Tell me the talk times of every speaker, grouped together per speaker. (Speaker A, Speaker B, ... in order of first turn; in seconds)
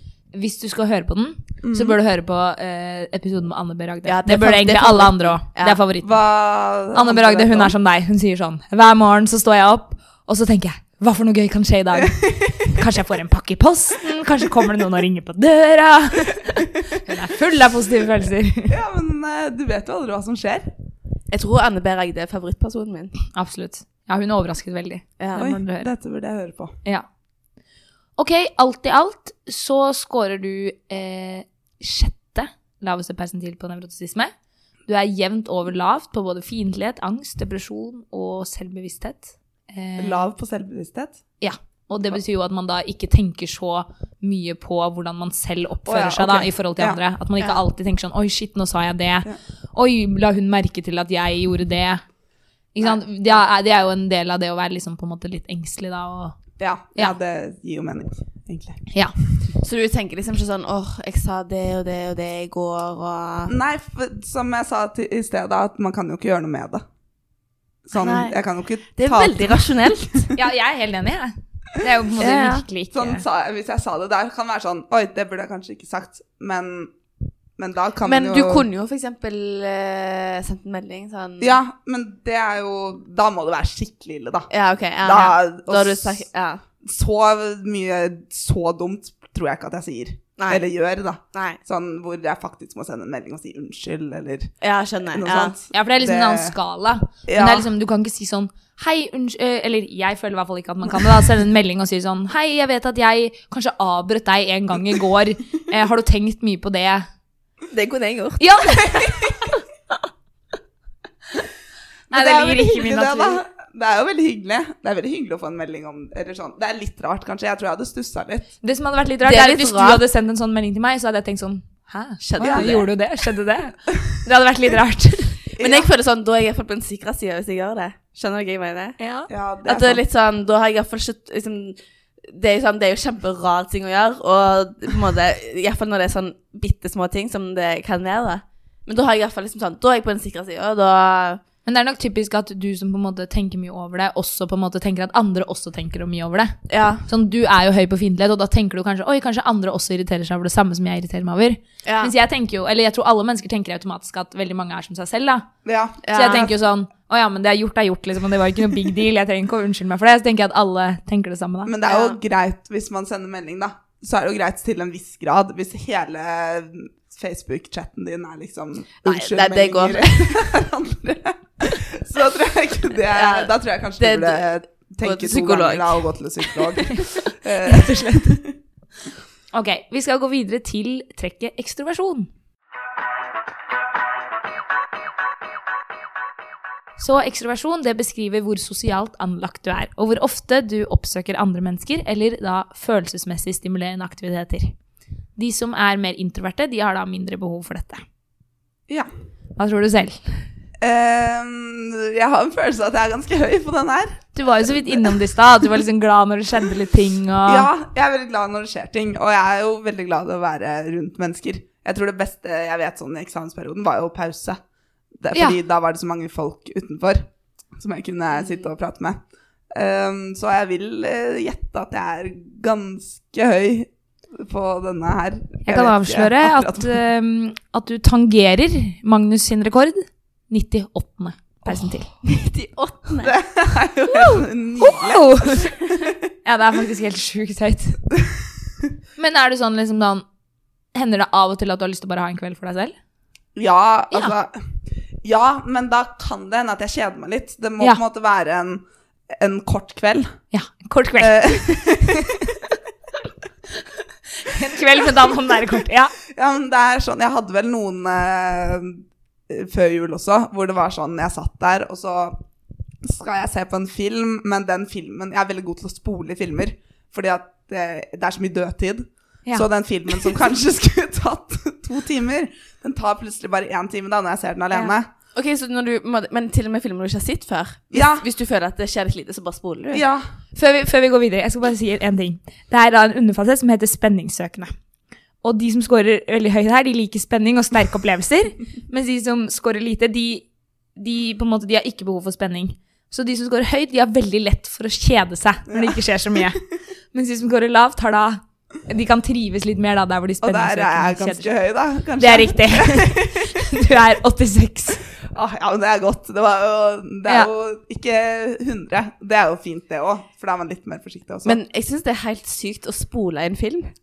Speaker A: 0.3-6.2, 6.9-18.8, 23.3-25.9, 28.2-34.3, 34.9-40.2, 41.4-52.0, 52.7-56.4, 70.3-73.2, 95.7-107.1, 108.4-109.5, 112.1-113.4, 118.6-125.4, 129.0-129.3, 141.7-155.5, 156.1-161.7, 177.6-178.4, 179.5-182.3, 187.0-194.7, 195.3-198.0, 199.6-200.4, 204.3-207.7, 225.6-232.1, 234.1-235.8, 236.4-238.0, 239.2-240.2, 240.9-242.9, 250.5-251.6, 254.3-256.1, 280.5-284.7, 285.4-301.5, 302.2-305.0
Speaker B: 1.6-2.0, 6.0-7.7, 18.7-20.7, 25.4-26.7, 40.0-41.2, 45.9-47.0, 56.6-58.8, 63.5-66.8, 67.8-70.3, 72.9-76.9, 77.6-78.7, 81.4-84.5, 85.0-86.2, 86.8-94.5, 95.1-96.5, 97.3-97.7, 112.1-118.5, 122.4-122.8, 125.6-125.9, 129.3-130.0, 155.6-156.5, 161.7-178.5, 200.8-205.2, 207.4-214.6, 215.2-217.2, 217.8-219.2, 219.7-227.0, 231.6-232.0, 233.2-236.1, 243.5-250.3, 251.2-252.6, 256.3-262.4, 263.0-275.1, 277.9-278.2, 279.9-280.2, 295.7-296.5, 300.4-303.6, 305.2-311.6
Speaker C: 4.0-5.8, 21.3-23.2, 25.2-25.5, 59.6-63.5, 67.9-68.3, 69.0-70.3, 72.2-72.6, 78.0-81.6, 84.5-86.6, 90.4-90.6, 91.3-91.6, 94.6-95.5, 107.7-109.5, 119.2-120.0, 122.2-122.9, 125.6-129.0, 129.6-131.8, 132.3-141.4, 146.7-147.0, 151.8-152.1, 156.0-156.5, 161.9-162.2, 169.0-170.4, 173.1-174.5, 175.0-176.6, 232.2-233.4, 275.3-280.0, 311.4-313.9